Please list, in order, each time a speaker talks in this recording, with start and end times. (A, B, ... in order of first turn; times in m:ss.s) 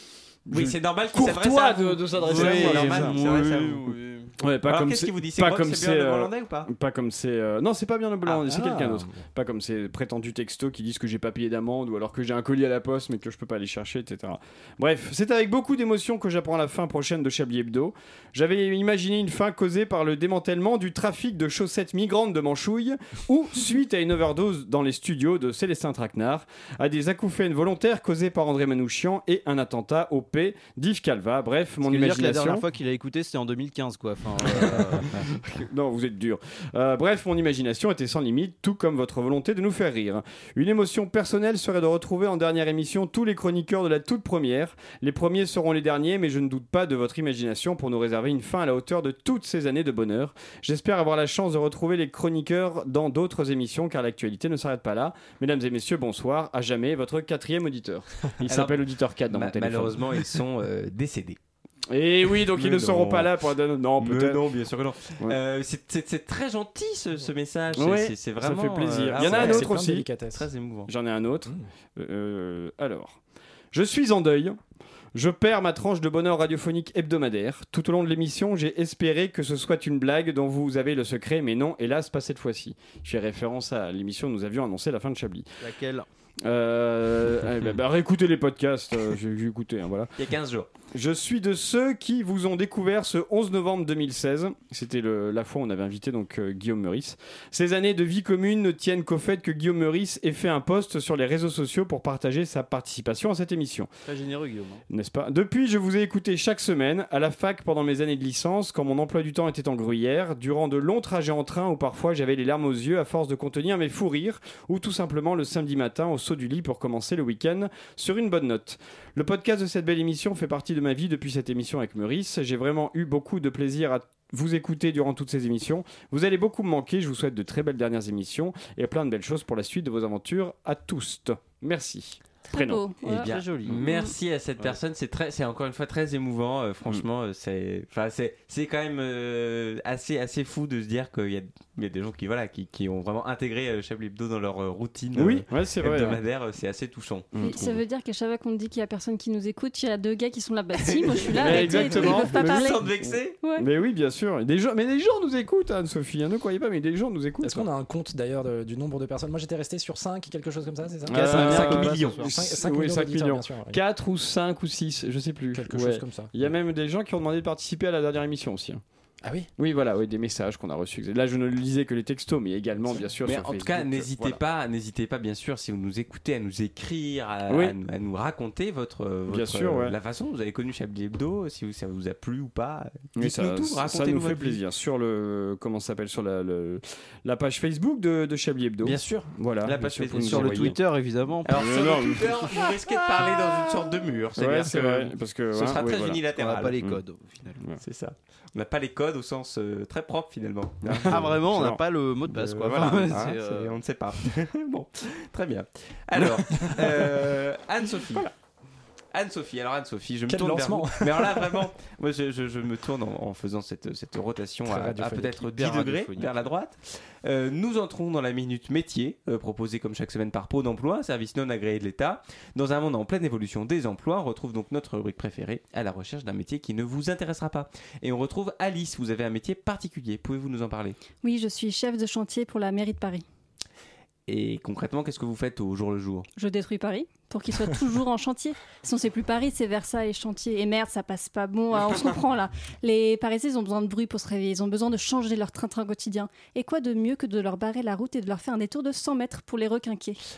0:00.5-0:03.2 A
0:00.5-0:04.0 B
0:02.2-0:04.3 C
0:04.4-0:32.6 A
0:04.7-0:06.7 B
0:08.4-0:09.2 D
0:31.8-0:35.3 C
0:34.4-1:00.2 A
0:58.5-1:01.4 B
1:01.9-1:04.5 A
1:02.5-1:03.3 B
1:04.0-1:09.7 B
1:07.8-1:10.1 A
1:09.2-1:10.5 D
1:10.3-1:10.9 B
1:10.9-1:13.2 A
1:13.7-1:14.6 A
1:15.2-1:25.5 A
1:25.6-1:26.1 C
1:26.4-1:30.1 A
1:30.2-1:30.7 B
1:30.9-1:43.9 A
1:44.1-1:44.8 C
1:44.9-2:12.8 A
2:12.5-2:14.1 E
2:13.0-2:27.7 B
2:13.2-2:13.8 C
2:25.2-2:26.2 A
2:27.3-2:27.8 A
2:27.4-2:32.8 E
2:30.8-2:33.4 B
2:31.4-2:37.7 A
2:33.4-2:33.7 E
2:37.4-2:43.8 D
2:41.1-2:48.8 A
2:41.1-2:42.4 C
2:41.2-2:42.2 B
2:45.5-2:46.5 D
2:49.2-2:49.5 D
2:49.6-2:54.4 A
2:53.2-3:04.6 B
2:57.5-2:57.8 A
2:59.3-3:00.0 A
3:03.2-3:10.8 A
3:09.6-3:10.7 B
3:10.1-3:12.1 C
3:11.4-3:16.8 B
3:11.5-3:13.8 A
3:14.4-3:16.2 A
3:16.3-3:17.6 C
3:17.8-3:21.2 B
3:20.8-3:23.4 A
3:21.1-3:23.8 C
3:22.7-3:28.3 B
3:26.5-3:27.0 A
3:29.1-3:51.0 B
3:30.3-3:31.6 D
3:34.6-3:35.5 D
3:35.4-3:36.4 C
3:51.2-3:53.2 E
3:54.3-3:56.3 B
3:56.4-4:10.2 E